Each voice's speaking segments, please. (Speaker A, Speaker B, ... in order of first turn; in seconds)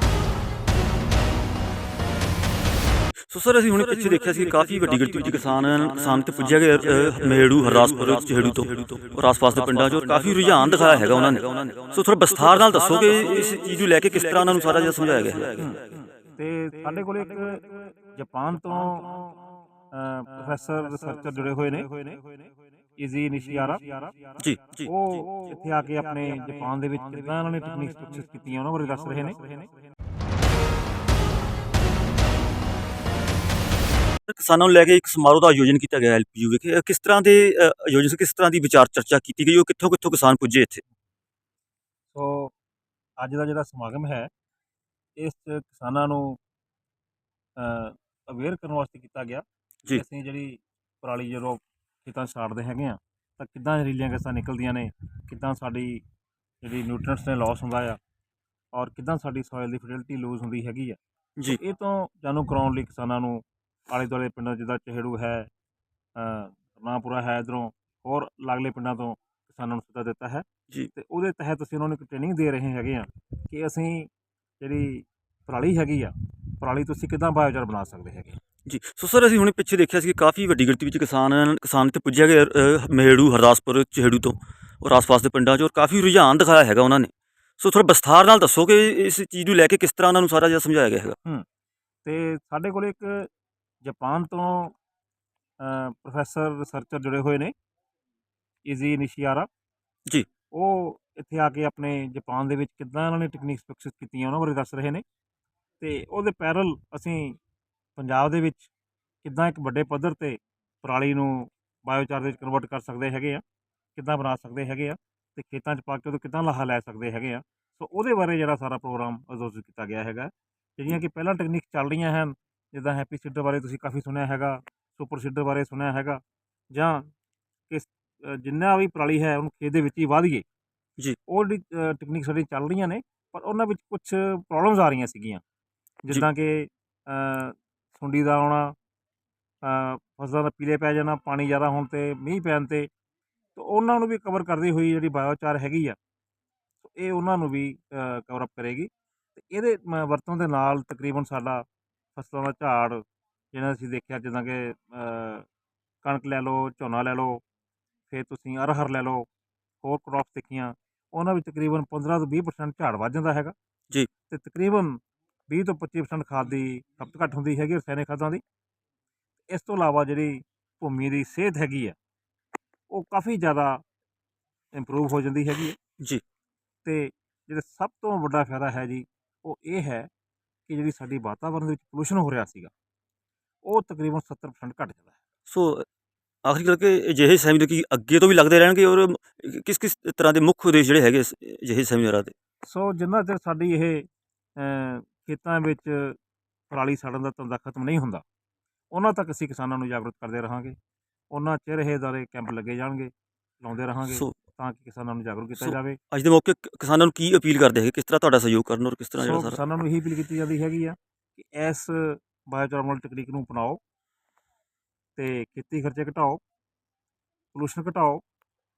Speaker A: 3.2-15.8, 24.4-24.9, 34.3-40.8, 78.7-91.2, 185.5-185.9, 186.4-192.3, 204.1-204.3, 205.6-209.6
Speaker B: 15.6-22.4, 23.0-29.7, 42.1-42.5, 43.2-44.3, 45.2-46.4, 47.6-56.0, 56.6-58.0, 58.7-65.5, 66.2-78.4, 92.0-93.3, 93.8-94.7, 95.6-97.5, 98.7-99.5, 100.5-105.0, 105.8-107.4, 108.0-108.7, 109.2-113.4, 114.0-127.1, 127.7-130.4, 131.3-135.4, 136.0-138.8, 139.6-142.9, 143.6-146.0, 146.8-155.5, 156.0-157.4, 158.1-159.3, 159.8-163.6, 164.3-168.4, 169.5-172.0, 172.9-173.8, 174.8-175.8, 176.8-180.1, 180.7-182.7, 183.7-185.1, 192.6-196.2, 196.7-198.2, 198.9-200.8, 201.3-206.0, 209.2-213.8, 215.2-216.4, 217.5-218.2